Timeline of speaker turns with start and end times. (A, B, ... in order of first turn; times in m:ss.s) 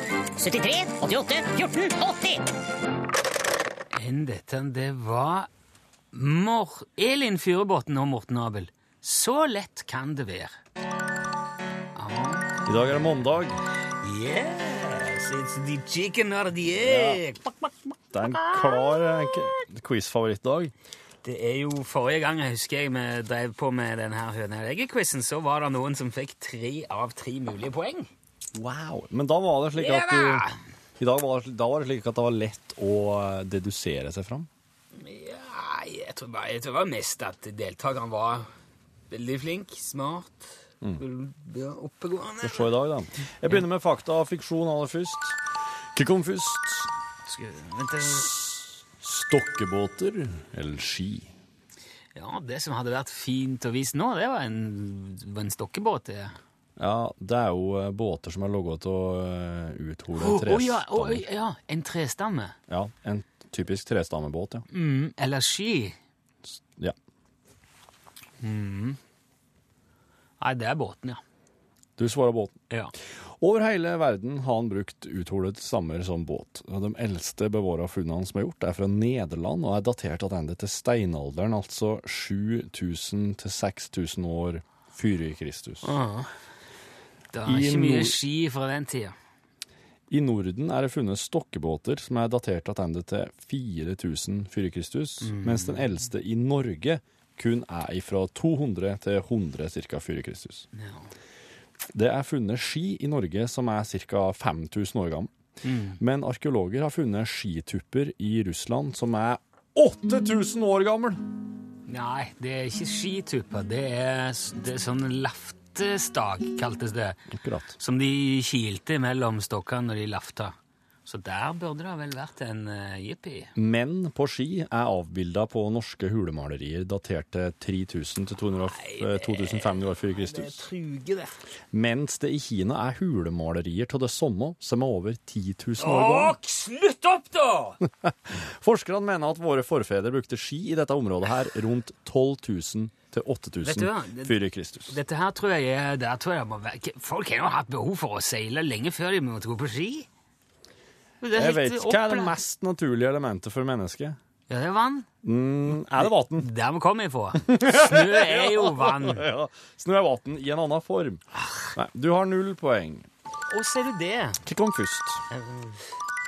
0:00.4-0:02.4 A
0:03.9-0:05.5 B
0:06.1-0:10.6 B
0:12.0-0:12.9 B
0:12.7-0:13.6 C
0:14.0-0:17.7 B
0:16.8-0:17.2 C
0:18.1-0:20.7 C
0:18.3-0:19.0 B
0:21.2-0:28.1 B
0:28.6-0:30.5 C
0:29.8-0:30.6 B
0:31.0-0:34.5 C
0:35.0-0:38.5 B
0:39.1-0:42.7 B
0:42.4-0:45.4 C
0:46.0-0:46.9 C
0:47.3-0:48.4 B
0:48.4-0:51.3 C
0:52.2-0:56.4 B
0:56.8-1:01.2 C
1:00.2-1:02.6 B
1:02.7-1:04.6 C
1:04.7-1:06.0 B
1:08.4-1:09.0 B
1:10.4-1:11.2 B
1:12.0-1:12.6 C
1:13.4-1:26.0 C
1:25.8-1:26.3 B
1:27.3-1:29.2 B
1:27.4-1:28.2 C
1:30.1-1:40.7 C
1:35.2-1:35.9 B
1:40.8-1:41.1 B
1:41.9-1:45.3 C
1:45.6-1:46.0 B
1:46.0-1:51.2 C
1:51.9-1:57.2 B
1:57.3-1:57.8 C
1:57.8-2:00.6 B
2:01.1-2:03.5 B
2:03.6-2:10.6 C
2:08.8-2:11.4 B
2:11.7-2:16.4 C
2:15.8-2:17.8 B
2:18.0-2:25.0 C
2:23.6-2:24.4 B
2:24.9-2:30.1 B
2:31.2-2:32.4 B
2:31.4-2:34.2 C
2:34.5-2:35.1 B
2:35.2-2:36.5 C
2:36.0-2:39.3 B
2:37.4-2:41.2 C
2:41.8-2:43.1 C
2:43.5-2:44.4 B
2:44.4-2:45.2 C
2:45.3-2:45.8 B